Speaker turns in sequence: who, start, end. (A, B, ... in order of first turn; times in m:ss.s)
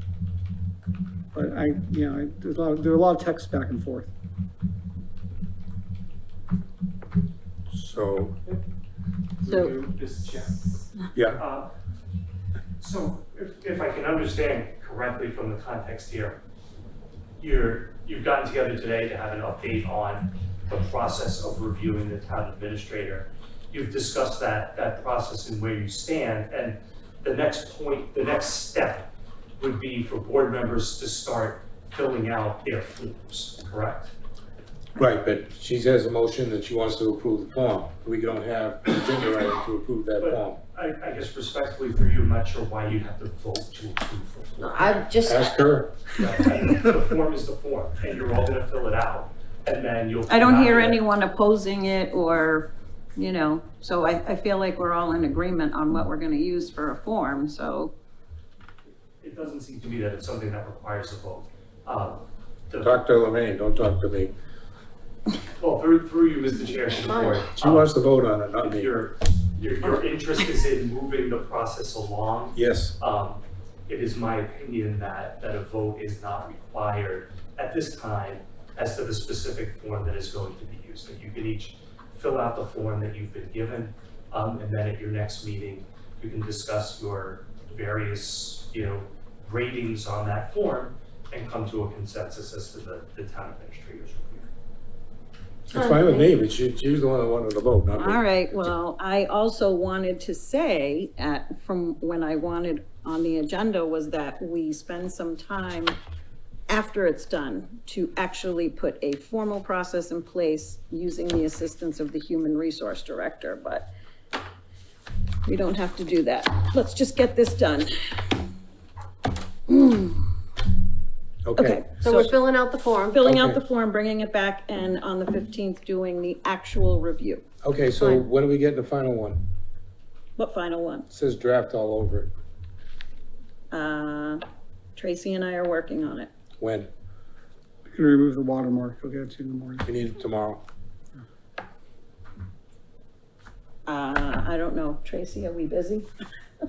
0:01.3-0:04.1 A
0:07.7-0:08.4 B
0:09.4-0:10.8 C
0:09.4-0:09.7 D
0:11.1-0:11.4 B
0:11.4-0:11.7 C
0:12.8-0:16.4 C
0:17.4-0:34.1 C
0:35.0-0:40.6 B
0:40.2-0:45.1 C
0:44.6-0:45.6 E
0:45.2-0:45.9 B
0:46.2-0:51.0 C
0:50.3-0:57.9 D
0:59.2-1:03.0 C
1:02.8-1:04.3 B
1:05.6-1:08.0 C
1:07.0-1:07.4 E
1:07.5-1:08.9 B
1:08.6-1:34.5 C
1:12.5-1:12.9 B
1:35.7-1:36.4 E
1:35.7-1:38.7 B
1:38.0-1:46.0 D
1:46.7-1:53.9 D
1:55.4-1:58.3 D
1:59.7-2:00.2 D
2:01.4-2:01.8 B
2:01.6-2:02.3 D
2:02.0-2:03.2 E
2:03.1-2:07.4 D
2:03.2-2:03.6 B
2:07.6-2:09.4 B
2:08.0-2:08.2 E
2:10.4-2:11.1 D
2:11.1-2:12.3 B
2:13.7-2:14.4 D
2:15.0-2:16.3 D
2:16.6-2:16.9 B
2:17.9-2:19.9 A
2:19.8-2:20.6 B
2:23.8-2:26.1 D